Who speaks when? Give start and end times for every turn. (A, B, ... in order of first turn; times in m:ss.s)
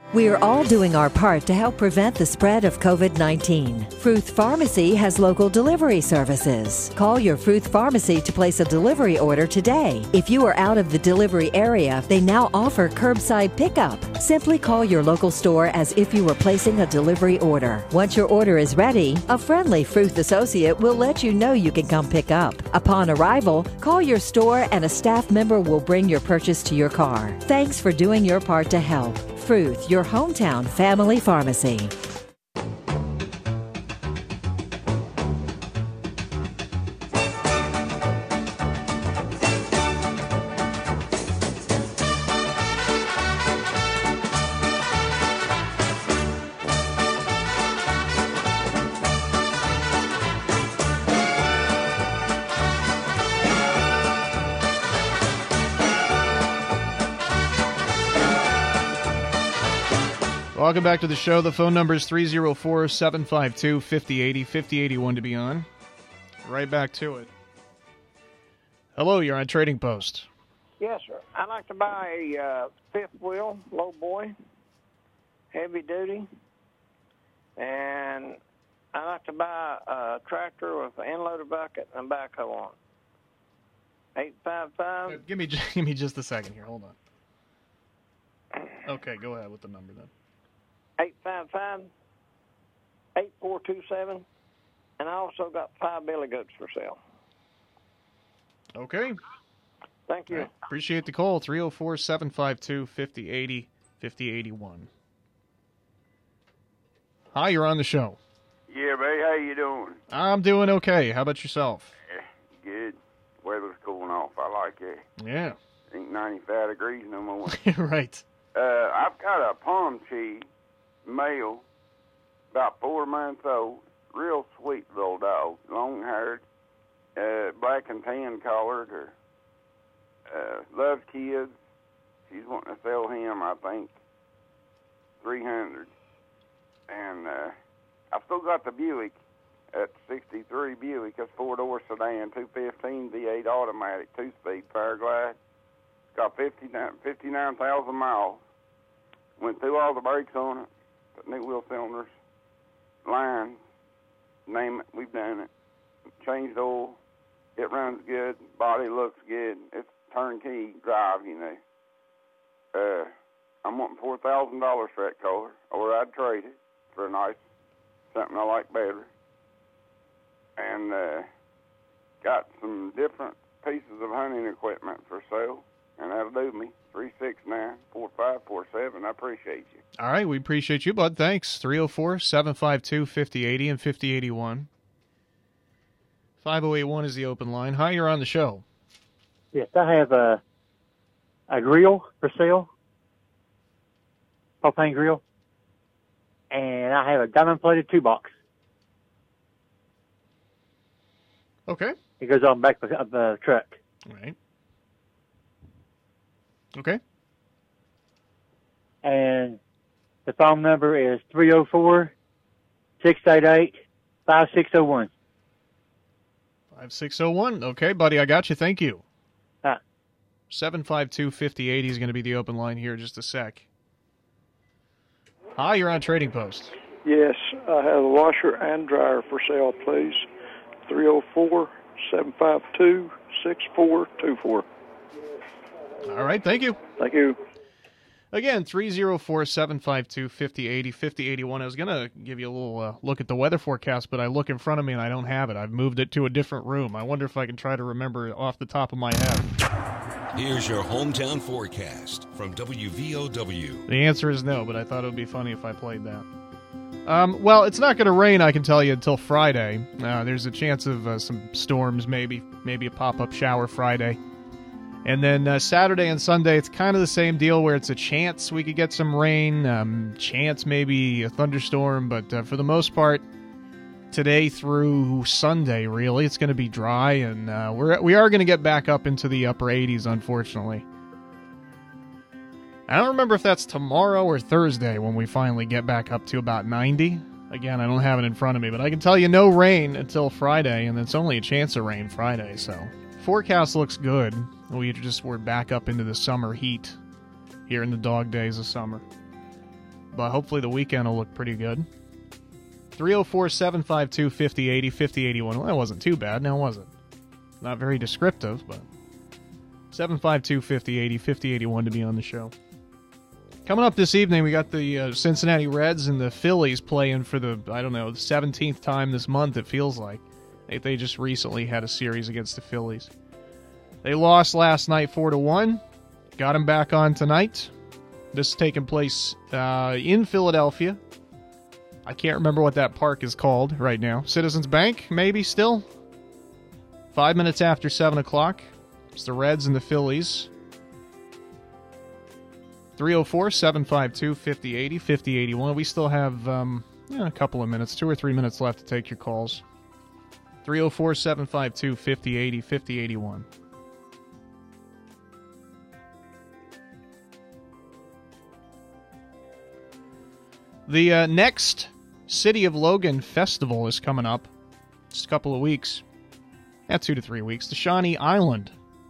0:00.1-0:32.0 A
1:00.5-1:05.7 B
1:06.4-1:07.3 B
1:09.0-1:10.3 B
1:10.8-1:14.4 C
1:15.5-1:16.3 C
1:17.6-1:18.4 C
1:18.9-1:22.8 C
1:24.2-1:25.2 C
1:25.1-1:27.0 B
1:28.8-1:30.1 B
1:31.0-1:31.9 C
1:33.2-1:34.2 C
1:35.0-1:37.0 C
1:38.8-1:39.2 B
1:40.1-1:40.6 C
1:40.3-1:44.9 B
1:47.3-1:48.2 B
1:48.7-1:50.0 D
1:50.1-1:51.9 B
1:52.1-1:55.0 D
1:55.2-1:55.6 B
1:55.9-1:57.6 D
1:57.5-1:58.2 B
1:58.5-2:00.5 D
2:01.0-2:01.6 D
2:02.5-2:06.4 D
2:07.2-2:09.1 D
2:10.3-2:11.6 D
2:12.3-2:13.9 D
2:15.2-2:15.9 D
2:16.9-2:17.6 D
2:18.1-2:19.2 D
2:19.7-2:25.4 D
2:26.2-2:28.4 D
2:29.4-2:32.1 D
2:33.0-2:33.6 D
2:34.5-2:35.5 D
2:36.2-2:37.0 D
2:37.6-2:41.6 D
2:42.7-2:43.1 D
2:43.6-2:47.4 D
2:48.1-2:49.1 D
2:50.6-2:51.3 D
2:52.2-2:59.8 D
3:00.0-3:04.7 B
3:06.4-3:08.6 B
3:09.5-3:10.4 E
3:11.5-3:12.7 E
3:14.6-3:15.2 E
3:16.5-3:18.3 E
3:21.7-3:22.0 B
3:22.2-3:23.8 E
3:24.1-3:24.4 B
3:26.8-3:27.0 B
3:29.0-3:29.6 E
3:30.3-3:32.1 E
3:33.0-3:35.1 E
3:36.7-3:39.0 B
3:40.5-3:43.7 B
3:45.6-3:46.8 B
3:47.0-3:50.3 F
3:50.9-3:54.7 F
3:56.0-3:56.8 B
3:57.0-3:57.4 F
3:58.3-4:09.4 B
4:10.3-4:13.8 G
4:13.9-4:16.3 B
4:17.1-4:24.2 B
4:25.0-4:33.2 B
4:34.1-4:40.9 B
4:42.9-4:57.0 B
4:57.7-4:59.0 B
5:00.1-5:01.9 B
5:03.0-5:06.9 B
5:07.6-5:08.8 B
5:09.9-5:12.5 B
5:13.6-5:23.1 B
5:24.0-5:25.8 B
5:26.4-5:27.7 B
5:28.3-5:31.0 B
5:32.1-5:35.9 B
5:37.1-5:40.5 B
5:43.0-5:49.6 B
5:50.6-5:53.5 B
6:00.9-6:04.5 B
6:05.1-6:06.0 B
6:06.9-6:08.7 B